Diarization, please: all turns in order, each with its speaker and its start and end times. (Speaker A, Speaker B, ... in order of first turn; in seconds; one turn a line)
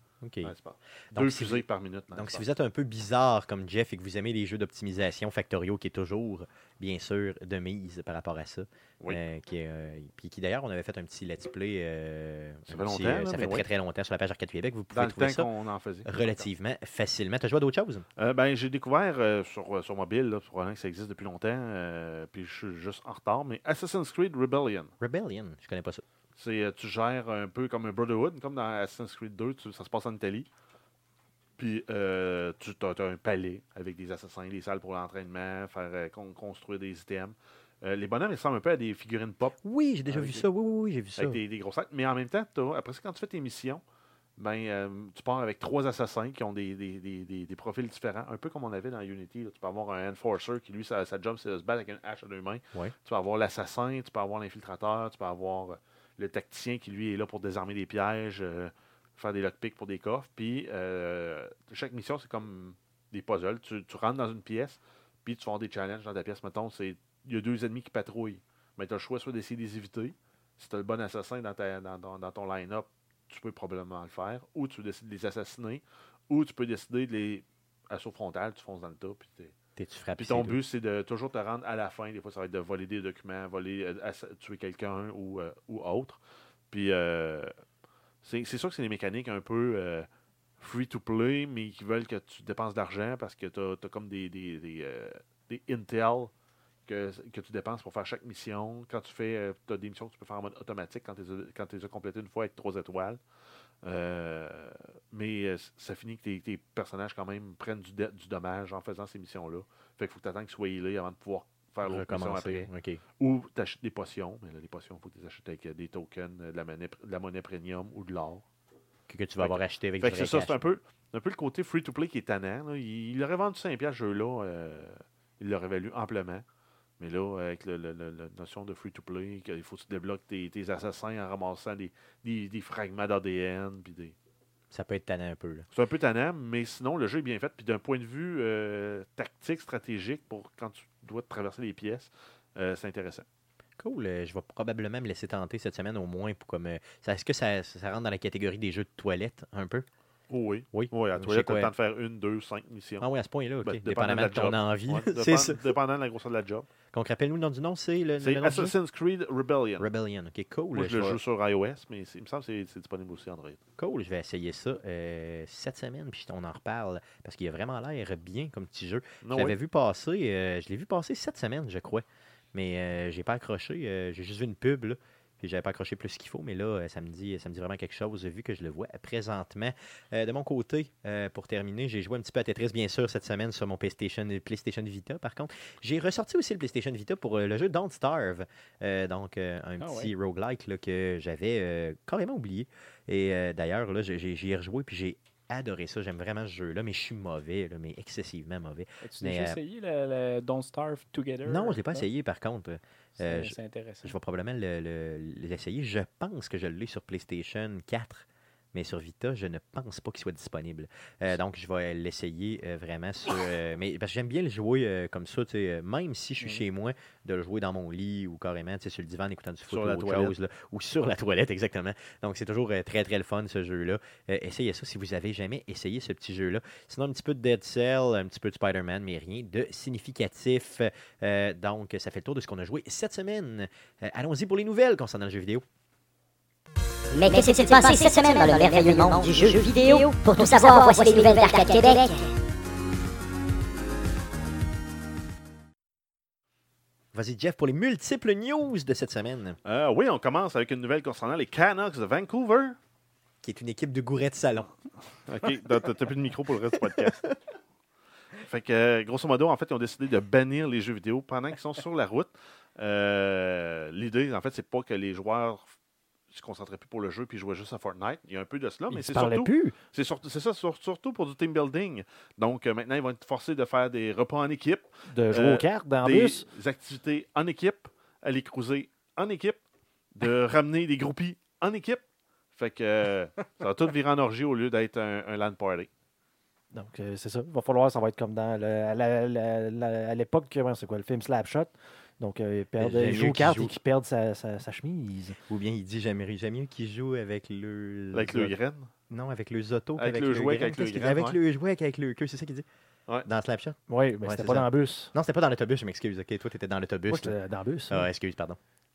Speaker A: 0.2-0.5
Speaker B: 0.4-2.4
Speaker A: 1.1-15.5
Speaker B: 12.7-13.7
Speaker B: 14.9-16.4
Speaker A: 16.0-18.1
Speaker B: 18.2-24.9
Speaker A: 25.0-26.0
Speaker B: 26.3-30.5
Speaker B: 31.6-39.5
Speaker A: 39.6-41.4
Speaker B: 40.1-40.4
Speaker B: 41.1-43.8
Speaker B: 44.4-79.5
Speaker A: 79.8-80.6
Speaker B: 80.2-86.2
Speaker B: 86.7-87.5
Speaker B: 88.2-90.1
Speaker B: 90.6-96.3
Speaker B: 96.8-103.2
Speaker B: 103.8-118.4
Speaker A: 111.8-113.0
Speaker A: 119.1-120.7
Speaker B: 119.4-126.4
Speaker B: 127.0-134.1
Speaker A: 134.7-135.7
Speaker B: 135.7-143.2
Speaker A: 143.8-149.9
Speaker B: 150.3-153.1
Speaker A: 150.7-151.7
Speaker A: 153.0-155.6
Speaker B: 153.6-156.7
Speaker A: 156.9-158.7
Speaker B: 158.2-159.8
Speaker A: 159.8-161.2
Speaker B: 160.7-163.6
Speaker A: 163.8-199.6
Speaker B: 169.2-169.6
Speaker C: 189.8-190.1
Speaker C: 199.0-202.1
Speaker A: 201.4-235.6
Speaker C: 203.2-204.1
Speaker B: 219.7-220.3
Speaker D: 237.1-242.3
Speaker A: 247.1-249.6
Speaker B: 249.6-252.8
Speaker A: 253.4-254.7
Speaker B: 255.3-257.3
Speaker A: 256.8-257.3
Speaker B: 258.4-265.7
Speaker B: 266.3-279.6
Speaker E: 268.9-269.8
Speaker E: 275.1-276.4
Speaker B: 280.1-282.0
Speaker B: 282.5-285.9
Speaker E: 286.7-295.4
Speaker A: 292.8-293.7
Speaker A: 295.5-298.5
Speaker B: 298.1-298.9
Speaker A: 299.1-302.6
Speaker B: 300.0-301.4
Speaker A: 303.2-307.3
Speaker E: 303.9-305.1
Speaker E: 307.1-308.1
Speaker A: 307.9-308.6